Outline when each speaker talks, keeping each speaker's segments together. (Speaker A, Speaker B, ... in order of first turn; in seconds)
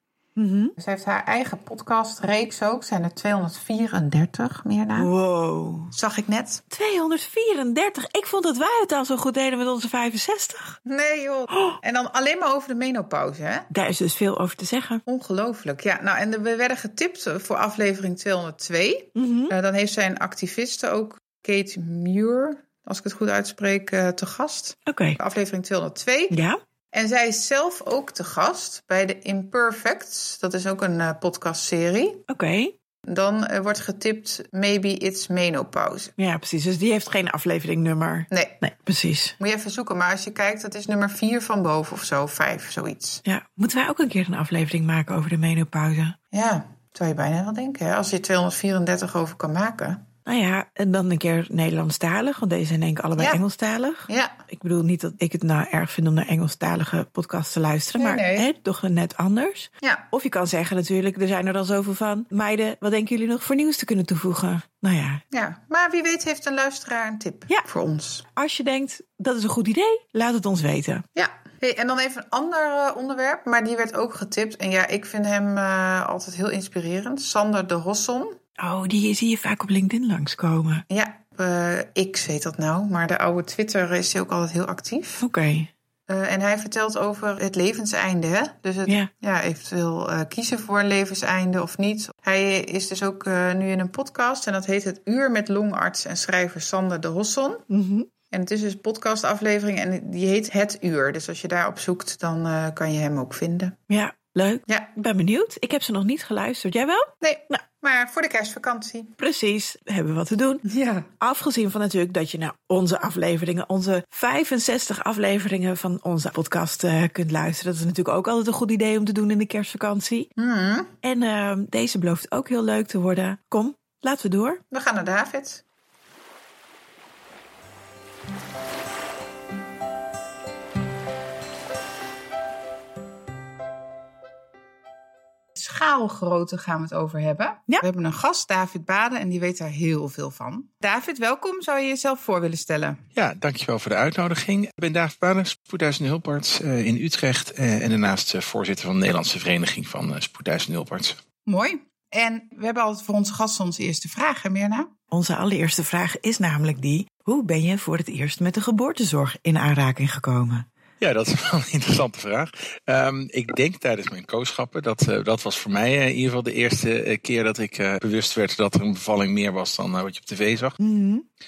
Speaker A: 0.4-0.7, 5.0-5.9, 6.7-10.8, 11.5-11.8, 13.7-15.0, 19.1-19.5, 24.9-25.2, 26.3-26.6, 32.3-32.7, 36.2-39.3, 43.2-46.2, 50.2-65.2, 68.3-71.0, 78.6-80.8, 85.2-85.7, 97.7-98.1, 103.9-107.6, 109.2-110.6, 111.2-120.3, 121.0-124.6, 155.1-160.7, 170.8-171.2
Speaker B: 0.8-5.1, 5.9-6.6, 10.8-13.7, 15.1-26.4, 26.9-32.2, 33.1-36.1, 39.4-43.2, 46.3-50.0, 54.1-54.4, 58.0-58.5, 65.3-68.2, 71.1-78.4, 80.9-85.2, 86.1-97.7, 98.3-103.8, 104.7-104.9, 107.2-109.1, 110.6-111.1, 120.4-120.9, 124.7-125.6, 135.6-143.0, 151.4-154.9
Speaker C: 143.1-151.2, 161.0-170.8